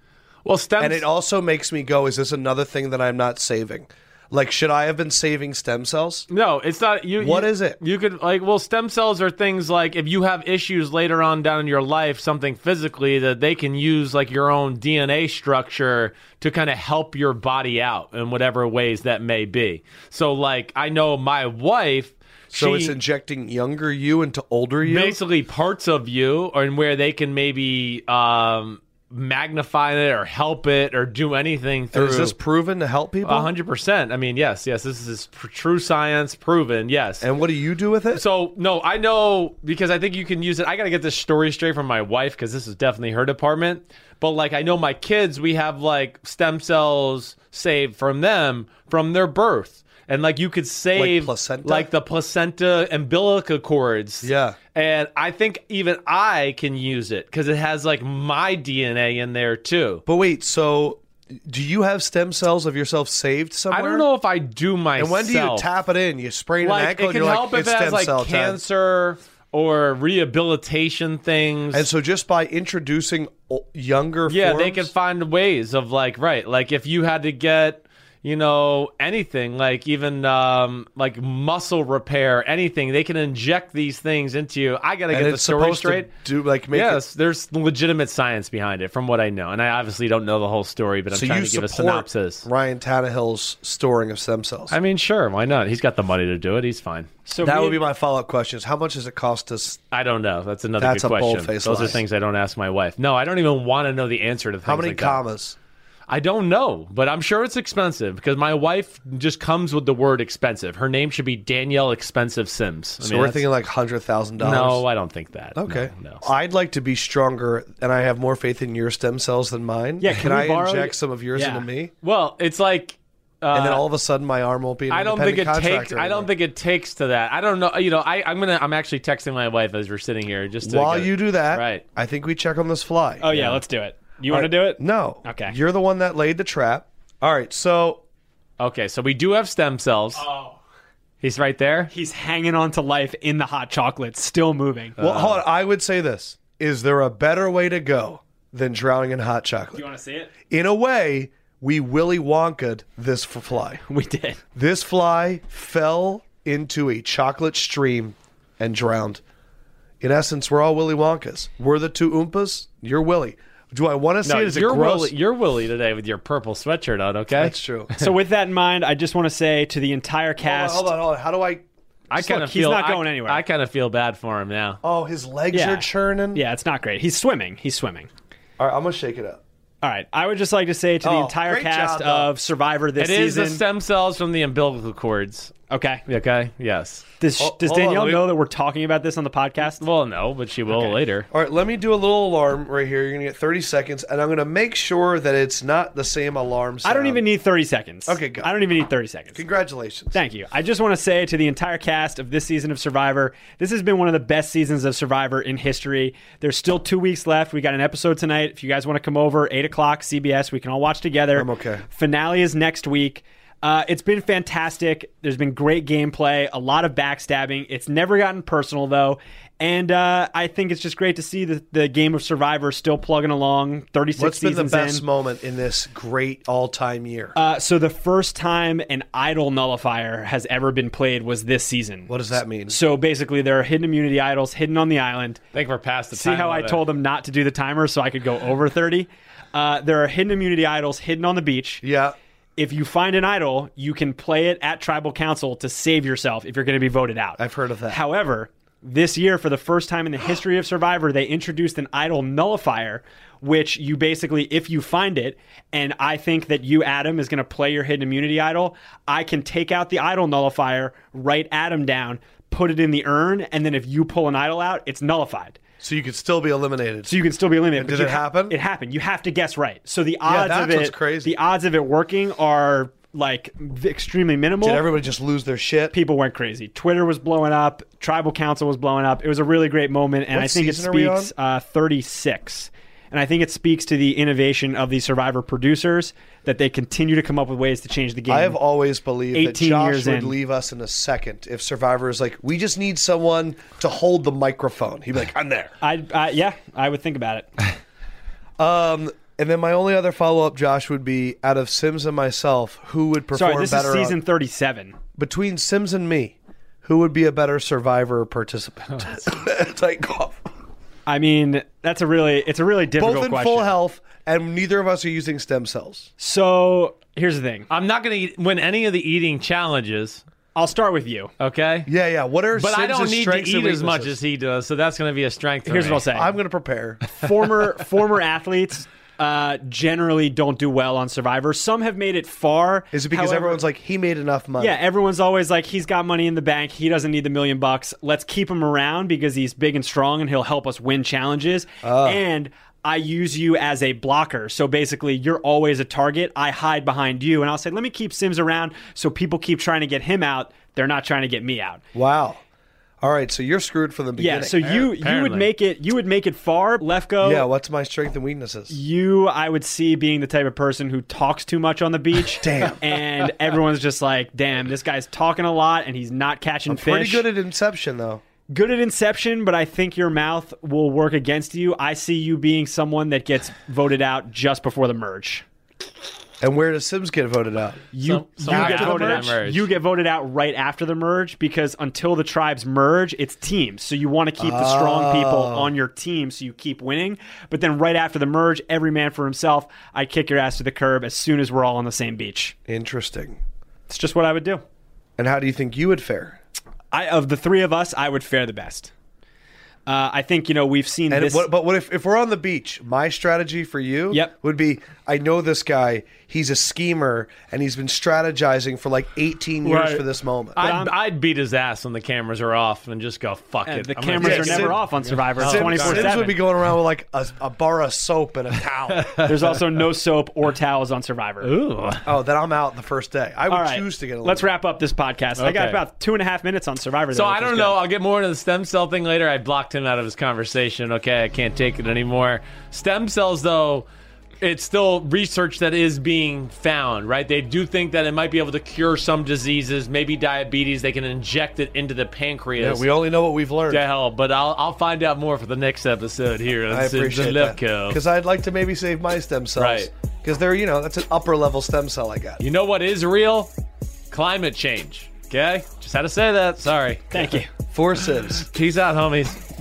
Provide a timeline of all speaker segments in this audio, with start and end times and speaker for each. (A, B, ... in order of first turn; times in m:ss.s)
0:00.4-0:01.0 A
0:00.8-0:06.3 B
0:06.3-0:23.0 A
0:07.2-0:07.8 B
0:22.5-0:25.2 B
0:24.8-0:32.4 A
0:31.9-0:33.5 B
0:33.2-0:37.3 A
0:37.2-0:38.2 B
0:38.1-1:00.0 A
0:51.0-0:51.9 B
0:54.2-0:54.6 B
1:00.1-1:04.1 B
1:03.7-1:05.7 A
1:05.0-1:08.6 B
1:06.6-1:11.9 A
1:11.7-1:14.9 B
1:14.3-1:26.1 A
1:25.1-1:27.0 B
1:26.7-1:32.5 A
1:31.1-1:34.8 B
1:34.7-1:37.1 A
1:37.3-1:37.8 C
1:37.4-1:39.8 B
1:39.9-1:45.2 A
1:40.8-1:42.0 B
1:44.6-1:45.6 B
1:46.1-1:53.4 A
1:53.0-1:54.8 B
1:54.4-1:56.2 A
1:55.6-2:01.9 B
2:00.0-2:01.7 C
2:02.0-2:03.8 A
2:03.5-2:06.3 B
2:04.9-2:11.8 A
2:10.6-2:13.2 B
2:13.2-2:15.6 C
2:13.3-2:13.6 A
2:14.3-2:18.0 B
2:18.6-2:20.2 A
2:20.2-2:20.6 C
2:21.2-2:21.9 A
2:21.9-2:25.0 C
2:25.0-2:25.4 A
2:25.0-2:29.8 B
2:29.7-2:30.3 C
2:30.5-2:33.8 B
2:33.9-2:34.4 C
2:34.6-2:39.2 B
2:40.0-2:45.1 B
2:44.2-2:48.1 A
2:47.4-2:47.9 B
2:48.0-2:50.9 C
2:50.4-2:51.6 B
2:52.1-2:54.8 A
2:52.1-2:53.4 C
2:54.8-2:56.4 B
2:55.5-2:58.1 C
2:58.6-2:59.4 B
2:59.8-3:03.6 C
3:01.0-3:02.3 B
3:03.0-3:05.5 A
3:05.7-3:06.0 C
3:06.1-3:07.1 A
3:07.2-3:09.8 C
3:07.4-3:08.3 B
3:09.8-3:11.3 A
3:11.3-3:17.2 B
3:16.8-3:19.4 C
3:18.1-3:18.5 B
3:19.4-3:20.2 B
3:20.1-3:45.0 C
3:31.4-3:31.8 B
3:44.2-3:47.4 B
3:47.4-3:52.1 C
3:52.1-3:52.8 B
3:52.7-3:55.4 C
3:55.5-3:56.8 A
3:56.1-4:01.8 C
4:01.8-4:02.2 B
4:02.6-4:25.6 C
4:07.4-4:08.0 B
4:25.8-4:27.2 B
4:27.1-4:34.9 C
4:27.8-4:28.6 B
4:30.2-4:31.4 B
4:34.6-4:36.0 B
4:35.9-4:48.6 C
4:40.3-4:41.3 B
4:48.3-4:55.7 B
4:49.3-4:50.4 C
4:55.8-4:57.7 C
4:58.6-5:04.2 B
5:03.3-5:05.0 C
5:05.2-5:10.4 B
5:11.1-5:13.8 C
5:13.0-5:16.1 B
5:16.2-5:17.7 C
5:17.7-5:20.2 A
5:20.6-5:21.3 C
5:21.4-5:21.9 A
5:21.9-5:24.2 B
5:22.6-5:26.1 A
5:25.7-5:26.3 C
5:26.1-5:27.0 B
5:27.1-5:33.6 C
5:32.9-5:34.8 B
5:34.6-5:51.8 C
5:41.8-5:42.2 B
5:51.9-5:52.4 B
5:53.0-5:54.6 B
5:54.2-5:57.5 C
5:54.6-5:55.5 A
5:57.2-5:58.8 B
5:58.7-6:07.3 C
6:02.4-6:02.8 B
6:06.7-6:08.2 B
6:08.5-6:15.4 C
6:16.4-6:17.9 B
6:17.9-6:32.6 C
6:18.0-6:19.7 A
6:18.4-6:19.3 B
6:24.4-6:25.7 B
6:32.7-6:33.4 B
6:33.9-6:34.6 C
6:35.2-6:36.4 B
6:36.9-6:38.9 C
6:39.9-6:41.5 C
6:41.1-6:50.6 B
6:49.6-6:50.0 C
6:50.6-6:50.9 C
6:50.6-6:56.3 A
6:53.7-6:56.4 C
6:54.2-6:54.8 B
6:55.4-6:59.2 B
6:58.9-6:59.4 A
6:59.2-7:01.5 C
7:01.4-7:02.1 A
7:02.0-7:04.5 B
7:03.5-7:07.8 C
7:05.4-7:05.8 A
7:07.1-7:13.9 A
7:14.4-7:22.8 A
7:22.6-7:23.8 B
7:23.7-7:28.0 A
7:26.7-7:32.4 B
7:29.6-7:29.9 A
7:32.4-7:33.5 A
7:34.1-7:37.3 A
7:37.1-7:37.5 C
7:37.7-7:38.5 B
7:38.3-7:39.4 A